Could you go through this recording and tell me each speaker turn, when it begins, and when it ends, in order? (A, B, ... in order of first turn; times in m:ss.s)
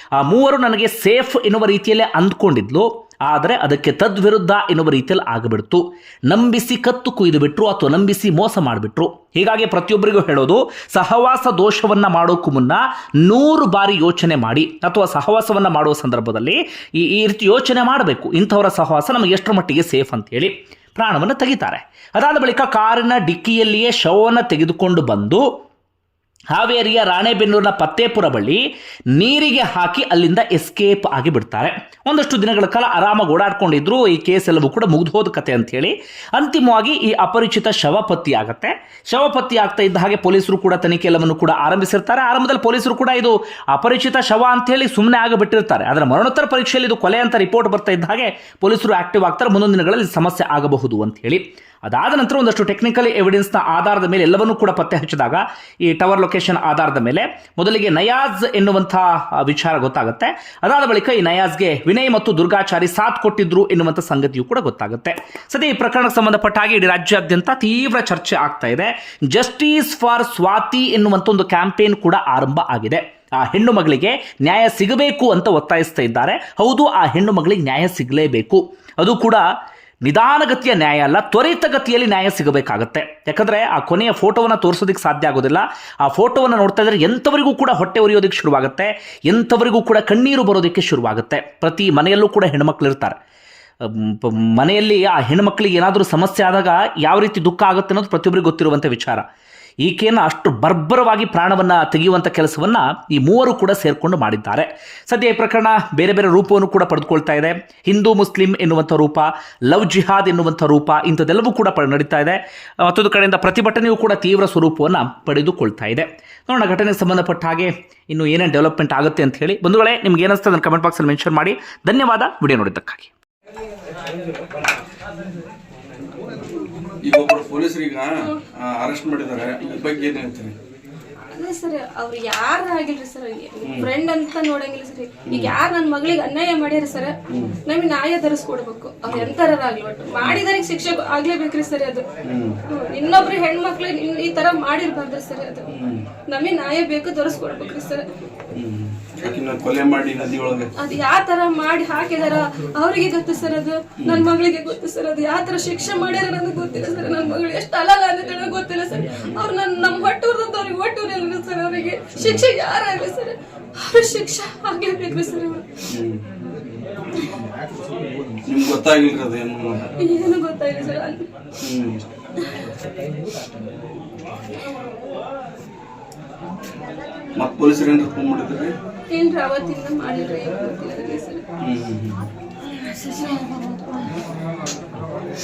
0:00.2-0:25.4 A
0:26.5-0:28.6 A
0:29.2-1:19.5 A
1:20.0-1:33.2 A
1:33.8-1:39.2 A
1:39.8-2:03.1 A
2:07.0-2:10.6 B
2:11.3-2:22.0 C
2:13.6-2:13.9 B
2:15.3-2:15.5 B
2:17.3-2:17.6 B
2:19.1-2:19.3 B
2:22.2-2:22.6 B
2:22.7-2:25.7 C
2:25.7-2:26.1 B
2:26.3-2:28.1 C
2:28.5-2:30.7 B
2:30.8-2:45.8 C
2:34.0-2:34.3 B
2:42.2-2:42.5 B
2:45.9-2:46.2 B
2:48.5-2:49.9 B
2:50.0-2:51.3 C
2:51.6-2:52.1 B
2:57.4-2:58.7 B
2:59.1-3:01.4 C
3:01.6-3:02.3 B
3:02.6-3:04.2 C